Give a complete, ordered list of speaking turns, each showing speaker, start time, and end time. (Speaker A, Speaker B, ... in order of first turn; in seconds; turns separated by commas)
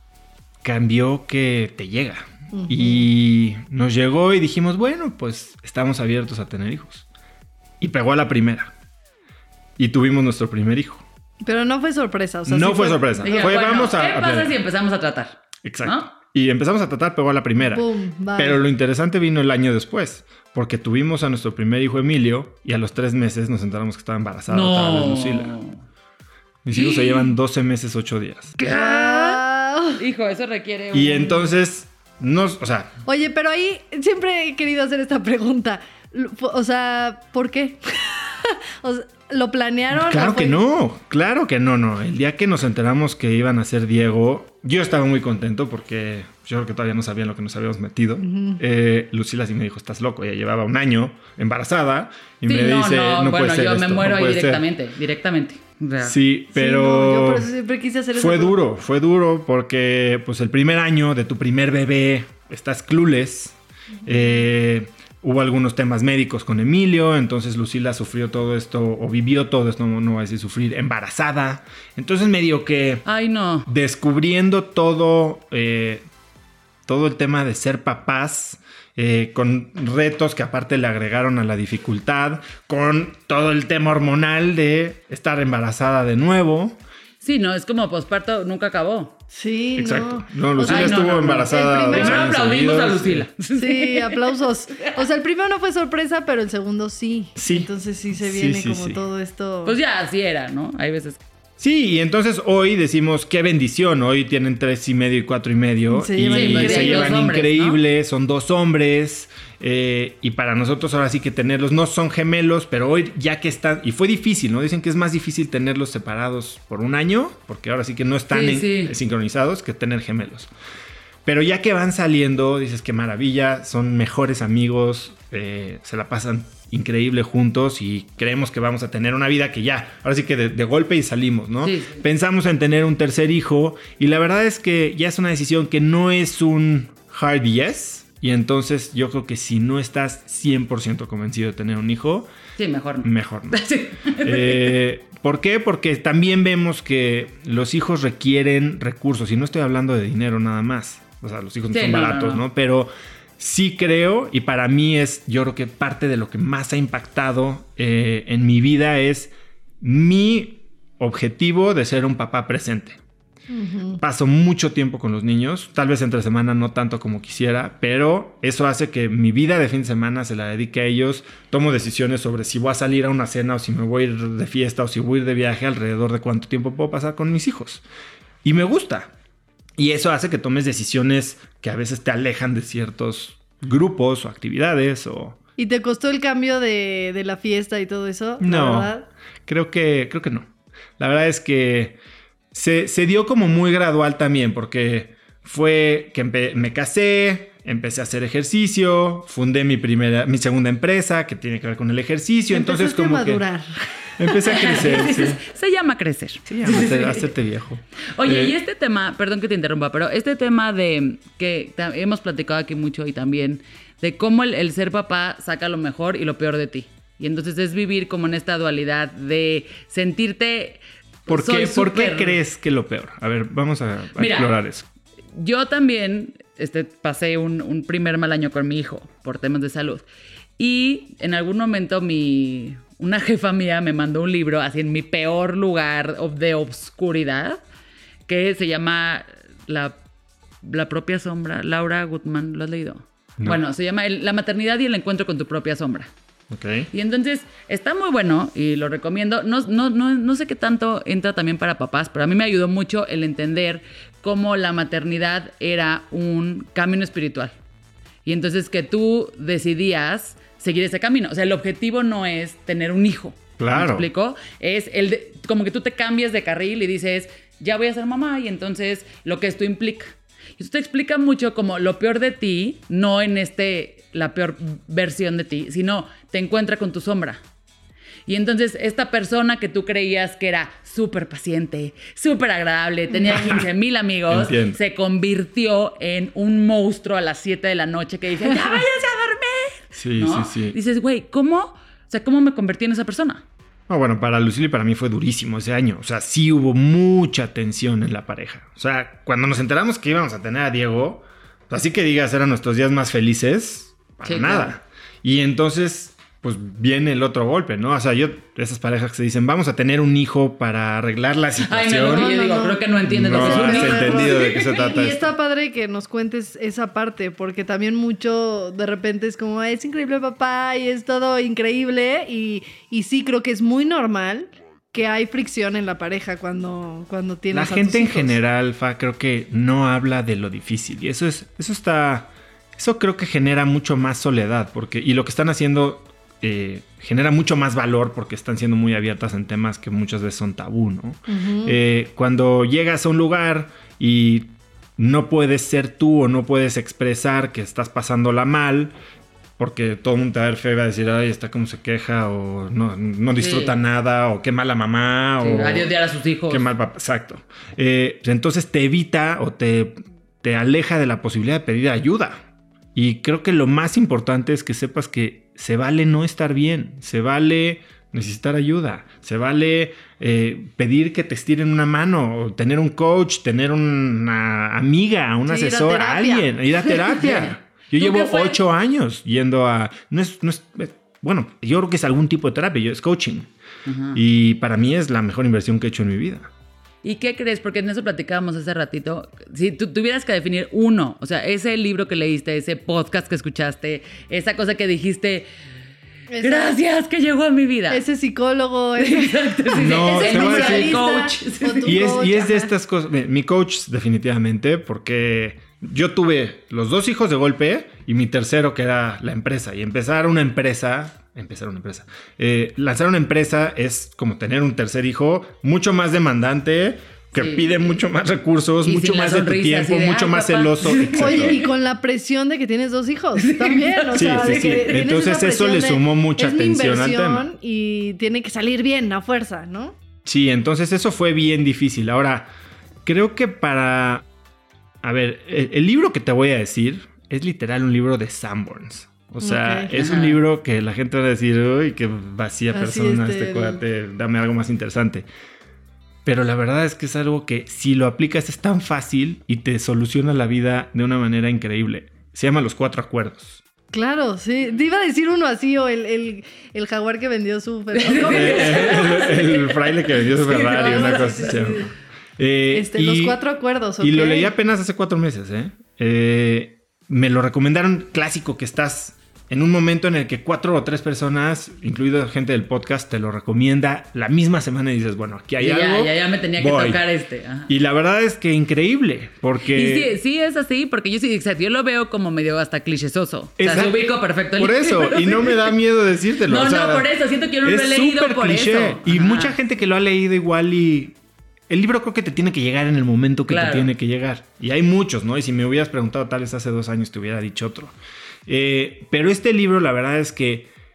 Speaker A: 0.6-7.1, Speaker B: 2.5-3.1, Speaker A: 7.8-8.7, Speaker A: 9.8-11.1, Speaker B: 11.4-13.6, Speaker A: 12.5-14.6, Speaker C: 13.2-16.1, Speaker A: 15.6-25.5, Speaker B: 17.7-18.6, Speaker C: 24.5-25.8, Speaker A: 26.6-28.6, Speaker C: 26.7-27.3, Speaker C: 28.6-29.4, Speaker B: 28.7-30.0, Speaker C: 30.0-31.5, Speaker A: 30.9-32.9, Speaker B: 33.0-40.6, Speaker A: 39.9-54.6, Speaker B: 48.2-48.6, Speaker C: 52.5-56.2, Speaker A: 56.0-57.5, Speaker B: 56.5-58.6, Speaker A: 58.1-73.1, Speaker B: 64.1-64.3, Speaker C: 73.1-73.7, Speaker A: 73.7-76.1, Speaker A: 76.9-86.8, Speaker C: 87.2-89.2, Speaker B: 89.3-92.4, Speaker A: 89.8-93.3, Speaker C: 90.6-94.5, Speaker B: 93.5-99.8, Speaker A: 97.4-99.0, Speaker C: 99.7-101.2, Speaker A: 101.6-120.5, Speaker B: 105.9-107.3, Speaker C: 106.3-107.8, Speaker C: 118.3-118.9, Speaker A: 121.2-142.3, Speaker C: 131.6-132.0, Speaker C: 142.6-144.8, Speaker A: 143.0-143.6, Speaker A: 144.2-163.0, Speaker C: 151.7-152.4, Speaker B: 163.5-164.0, Speaker A: 164.0-177.8, Speaker A: 178.4-179.1, Speaker A: 179.8-185.4, Speaker B: 185.6-189.1, Speaker A: 188.4-188.9, Speaker A: 189.5-192.0, Speaker A: 192.5-203.4, Speaker B: 202.5-204.8, Speaker A: 204.2-205.4, Speaker C: 204.5-207.3, Speaker A: 206.5-208.6, Speaker C: 208.2-222.4, Speaker A: 221.3-224.9, Speaker C: 224.2-224.6, Speaker C: 225.3-230.1, Speaker C: 230.6-237.6, Speaker C: 238.3-240.0, Speaker C: 240.6-246.1, Speaker A: 246.5-246.9, Speaker C: 246.9-257.6, Speaker C: 258.3-277.4, Speaker A: 263.6-264.1, Speaker C: 278.3-293.4, Speaker A: 283.3-283.7, Speaker A: 284.3-284.8, Speaker A: 289.9-290.8, Speaker A: 293.9-312.4, Speaker C: 304.2-304.8, Speaker C: 311.6-314.7, Speaker B: 312.1-328.4, Speaker A: 313.1-315.3, Speaker A: 327.5-348.9, Speaker B: 341.3-341.8, Speaker A: 349.6-355.9, Speaker C: 353.4-353.7, Speaker C: 355.4-356.7, Speaker A: 356.5-362.4, Speaker A: 362.9-383.5, Speaker C: 375.5-376.2, Speaker B: 375.6-376.5, Speaker C: 377.1-378.6, Speaker C: 383.9-384.2, Speaker A: 384.1-386.5, Speaker C: 387.0-395.5, Speaker B: 396.3-396.8, Speaker C: 396.4-398.0, Speaker B: 397.9-402.7, Speaker C: 399.0-401.9, Speaker A: 399.7-401.1, Speaker A: 401.8-421.6, Speaker C: 417.3-417.8, Speaker C: 418.8-421.7, Speaker B: 421.2-430.0, Speaker C: 423.4-425.0, Speaker A: 424.1-427.5, Speaker A: 430.2-432.5, Speaker A: 433.1-434.2, Speaker A: 435.0-445.3, Speaker B: 439.4-439.9, Speaker C: 440.0-440.4, Speaker B: 442.7-443.8, Speaker A: 446.2-453.6, Speaker B: 453.9-459.4, Speaker C: 457.9-461.6, Speaker A: 458.2-463.4, Speaker B: 460.5-461.9, Speaker B: 462.7-464.5, Speaker A: 464.0-477.0, Speaker C: 475.6-477.7, Speaker A: 477.7-480.1, Speaker C: 479.7-485.8, Speaker A: 483.6-487.1, Speaker C: 486.5-489.6, Speaker A: 487.6-491.1, Speaker A: 491.7-497.9, Speaker C: 493.5-493.9, Speaker A: 498.5-500.7